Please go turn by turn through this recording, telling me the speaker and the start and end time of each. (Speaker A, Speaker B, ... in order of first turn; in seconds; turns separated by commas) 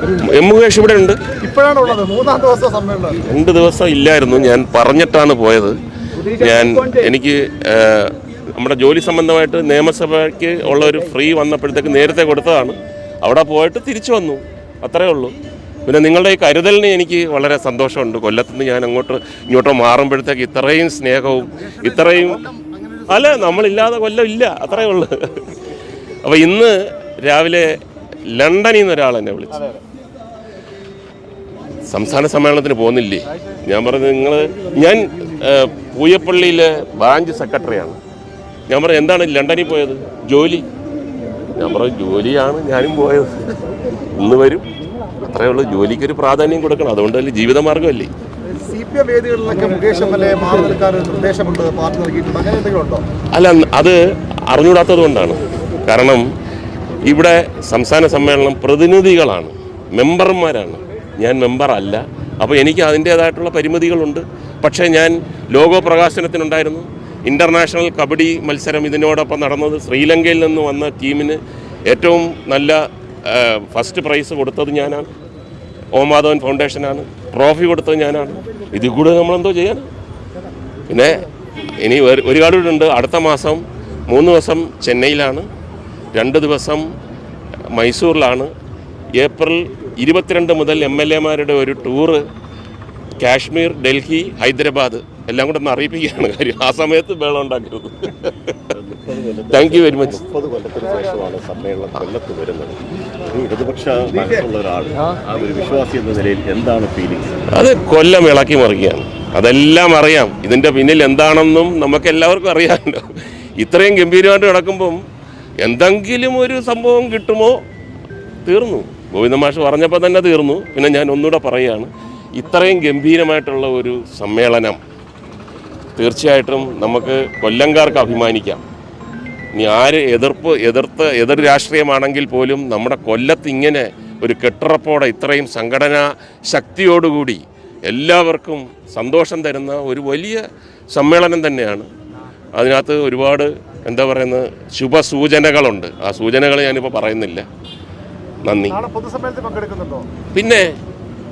Speaker A: 0.2-1.2, Speaker B: 1.4-3.2, Speaker A: 3.3-5.8, Speaker A: 6.3-15.3, Speaker A: 15.8-22.4, Speaker B: 21.6-23.6, Speaker A: 23.1-25.6, Speaker A: 26.2-27.8, Speaker A: 28.3-29.6, Speaker A: 31.9-38.0, Speaker A: 38.7-40.6, Speaker A: 41.6-43.3, Speaker A: 44.1-44.6, Speaker A: 45.2-48.1, Speaker B: 48.5-53.0, Speaker A: 53.3-54.0, Speaker A: 54.5-56.2, Speaker A: 57.0-75.1, Speaker A: 75.9-79.9, Speaker A: 80.9-81.2, Speaker A: 81.8-85.5, Speaker A: 86.1-86.8, Speaker A: 87.7-88.5, Speaker A: 89.2-92.2, Speaker A: 93.2-98.7, Speaker C: 98.7-107.4, Speaker A: 99.5-100.2, Speaker A: 107.5-115.0, Speaker A: 115.6-117.6, Speaker A: 118.5-124.8, Speaker A: 126.0-128.6, Speaker A: 129.5-141.9, Speaker A: 142.6-147.4, Speaker A: 148.4-148.8, Speaker B: 148.7-150.1, Speaker A: 150.3-150.7